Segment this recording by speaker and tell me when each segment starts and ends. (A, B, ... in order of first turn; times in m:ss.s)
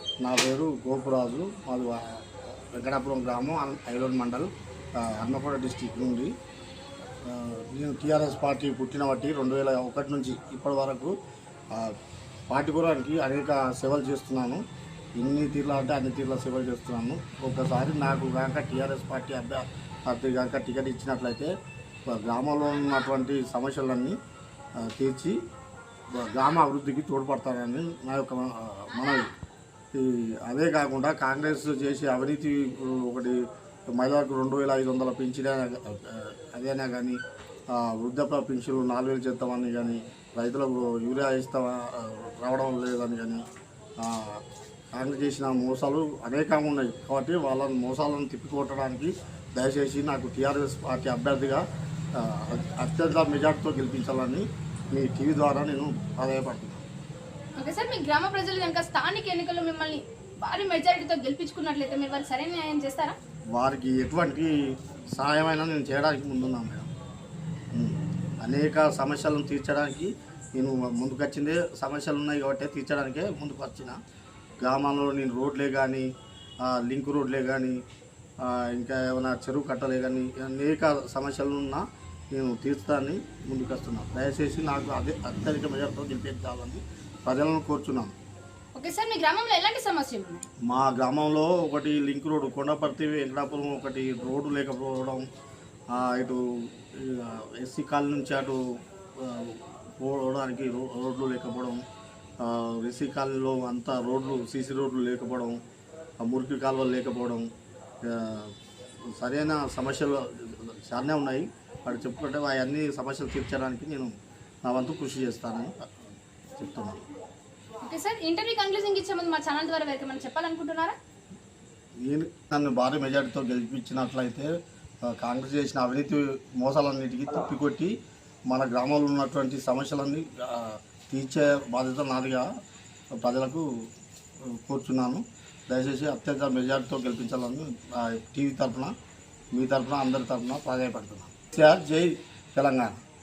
0:00.2-0:06.3 A
0:07.2-0:11.1 A
0:11.7-0:12.0 A
0:12.5-0:14.6 A
0:15.2-0:21.5 A
0:22.0-0:24.2 A
0:24.8-0:25.4 A
0:26.1-0:29.3 A
0:29.9-0:37.2 A
0:37.7-0:43.4 A
0:44.0-0:56.8 A
0:57.6-1:03.2 B
1:03.5-1:06.9 A
1:07.7-1:14.0 A
1:14.6-1:16.1 A
1:16.6-1:17.8 A
1:18.4-1:28.1 A
1:28.7-1:30.5 B
1:30.6-1:35.2 A
1:35.9-1:38.6 A
1:39.2-1:41.8 A
1:42.4-1:45.6 A
1:46.2-1:47.5 A
1:48.0-1:48.5 A
1:49.1-1:57.0 A
1:57.8-2:01.0 B
2:02.0-2:04.5 A
2:05.0-2:07.9 A
2:08.5-2:12.5 A
2:13.1-2:13.6 A
2:14.4-2:18.9 A
2:19.5-2:22.9 A